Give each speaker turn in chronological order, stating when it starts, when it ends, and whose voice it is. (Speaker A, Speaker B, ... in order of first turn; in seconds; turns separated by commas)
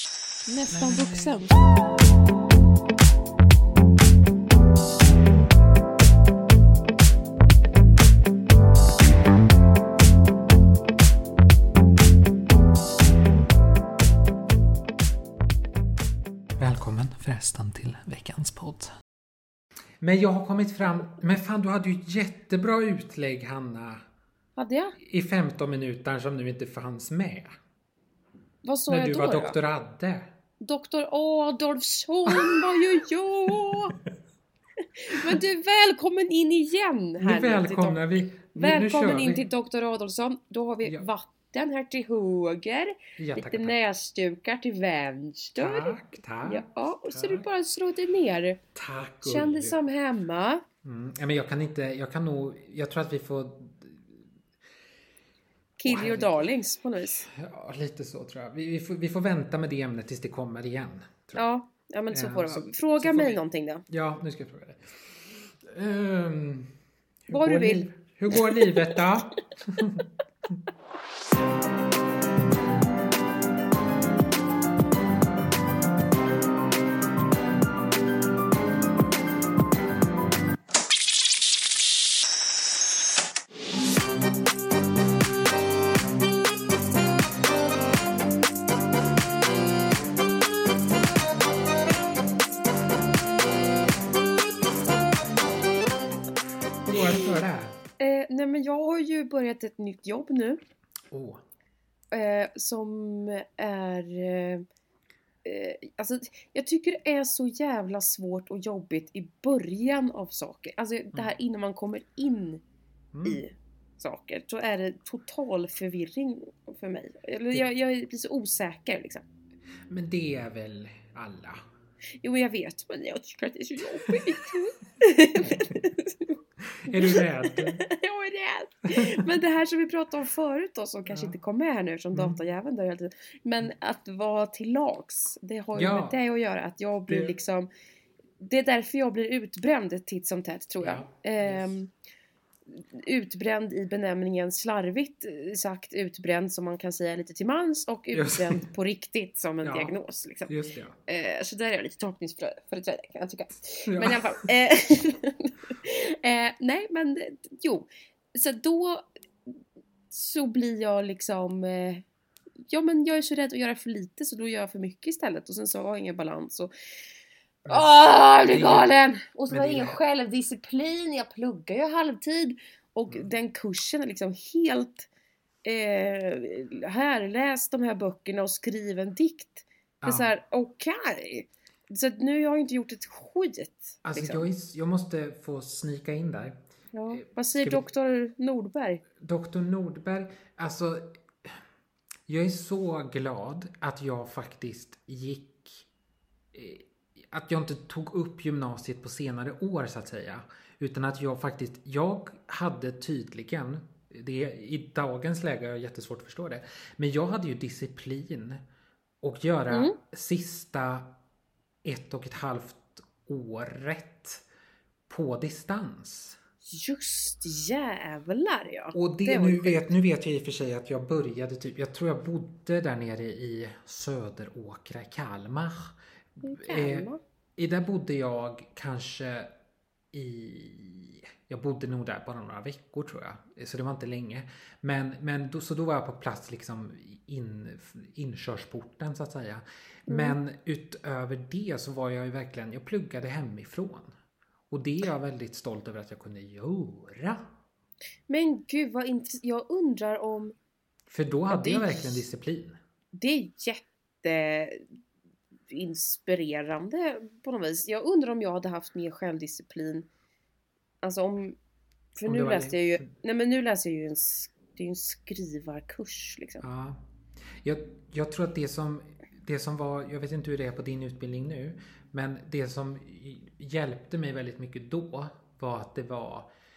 Speaker A: 0.5-1.5, Speaker B: 0.7-1.4, Speaker B: 16.6-18.9, Speaker B: 20.0-24.0, Speaker A: 24.6-25.0, Speaker B: 25.0-27.5, Speaker A: 28.6-29.6, Speaker B: 28.9-30.3, Speaker A: 30.6-34.0, Speaker B: 32.3-32.6, Speaker B: 33.5-34.1, Speaker A: 34.9-38.0, Speaker B: 37.2-39.4, Speaker A: 38.5-48.6, Speaker B: 43.2-43.8, Speaker B: 45.6-47.4, Speaker B: 48.7-49.8, Speaker A: 49.2-50.6, Speaker B: 50.8-54.2, Speaker A: 55.8-57.3, Speaker B: 55.8-56.5, Speaker B: 57.3-61.4, Speaker A: 61.3-63.8, Speaker B: 62.1-66.7, Speaker B: 67.3-70.6, Speaker A: 67.3-69.0, Speaker B: 96.8-97.8, Speaker A: 98.0-100.6, Speaker B: 101.1-101.4, Speaker A: 102.1-104.6, Speaker A: 105.4-112.6, Speaker B: 113.1-113.4, Speaker A: 113.2-119.2, Speaker B: 119.9-121.6, Speaker A: 122.2-126.3, Speaker B: 125.5-125.7, Speaker B: 126.6-127.8, Speaker A: 126.9-137.7, Speaker B: 128.9-129.2, Speaker B: 131.1-131.3, Speaker B: 135.8-136.2, Speaker B: 137.1-137.3, Speaker A: 138.4-141.9, Speaker B: 140.8-141.7, Speaker A: 142.7-150.5, Speaker B: 148.1-148.6, Speaker B: 149.6-149.9, Speaker B: 150.5-150.9, Speaker A: 151.1-159.6, Speaker B: 153.9-154.4, Speaker A: 160.1-162.0, Speaker A: 162.7-166.7, Speaker B: 167.7-168.9, Speaker A: 167.7-175.1, Speaker B: 169.5-170.0, Speaker A: 175.6-184.5, Speaker B: 180.0-180.3, Speaker B: 184.0-186.6, Speaker A: 186.9-189.0, Speaker B: 187.1-187.8, Speaker B: 189.2-191.6, Speaker B: 192.3-195.8, Speaker B: 196.5-208.6, Speaker B: 209.2-211.1, Speaker A: 209.7-210.0, Speaker B: 211.8-214.4, Speaker B: 215.1-216.4, Speaker A: 216.7-219.9, Speaker B: 218.9-229.5, Speaker A: 226.4-227.2, Speaker B: 230.1-244.1, Speaker A: 240.1-240.4, Speaker B: 244.7-247.5, Speaker A: 248.3-250.5, Speaker B: 251.1-252.8, Speaker A: 251.5-252.2, Speaker A: 253.2-254.9, Speaker A: 255.7-260.1, Speaker A: 261.0-261.6, Speaker A: 262.1-266.6, Speaker B: 262.2-263.1, Speaker B: 266.6-267.0, Speaker B: 267.6-276.5